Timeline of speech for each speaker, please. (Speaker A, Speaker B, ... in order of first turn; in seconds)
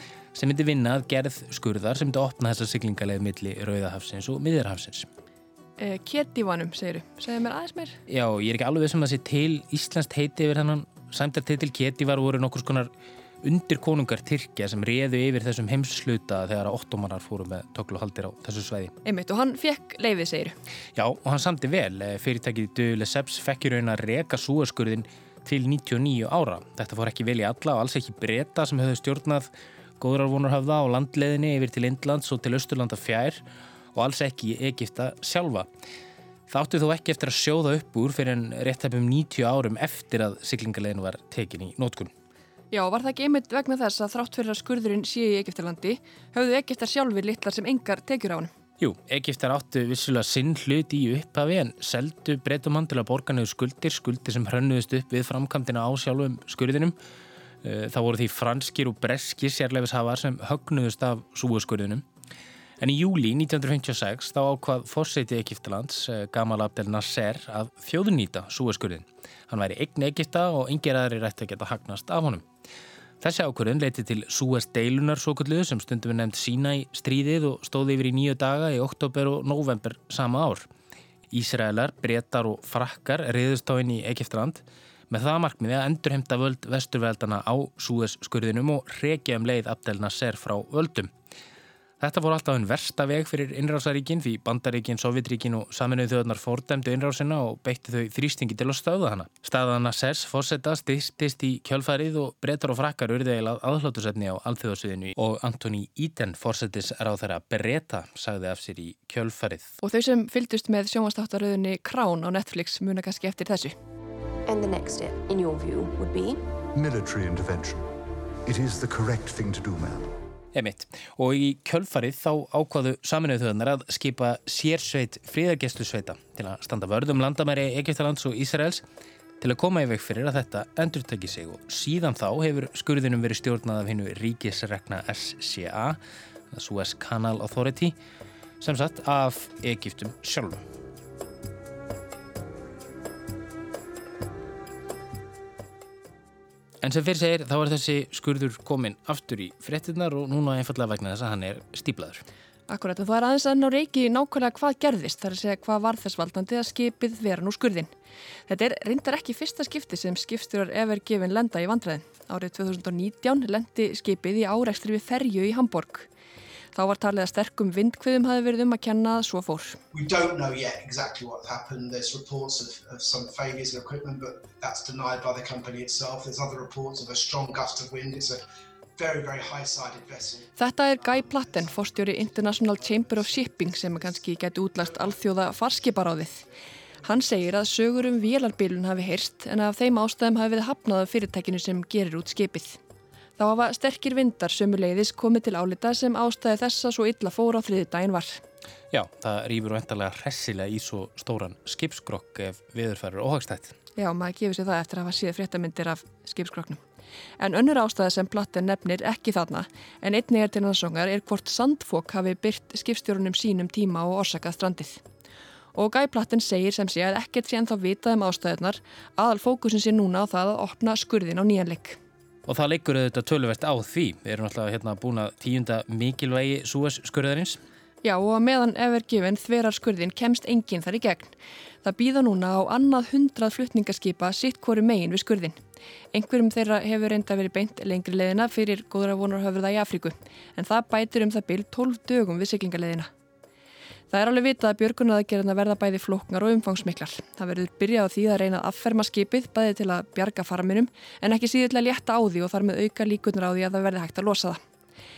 Speaker A: 0.3-5.1, 8.1-12.9, 13.4-18.9, 21.0-33.4, 33.9-35.7, 36.5-42.1, 48.8-57.0, 57.6-62.0, 62.8-72.5, 73.2-80.7, 81.3-91.1, 92.0-109.7, 120.5-128.8, 129.4-136.0, 136.5-138.0, 138.6-140.6, 146.8-152.2, 198.9-203.8, 222.5-227.6
Speaker B: 5.8-8.0, 19.0-20.6, 42.7-48.5, 109.8-113.8, 152.7-157.9, 158.5-166.1, 166.8-169.8, 180.6-186.4, 187.0-192.8, 193.4-198.4, 204.0-206.8, 207.4-215.0, 215.8-222.0, 228.0-235.6, 236.1-243.1, 244.1-254.6
Speaker C: 114.5-116.5
Speaker D: 116.7-117.9, 118.5-120.1
Speaker E: 169.9-178.4, 179.0-180.5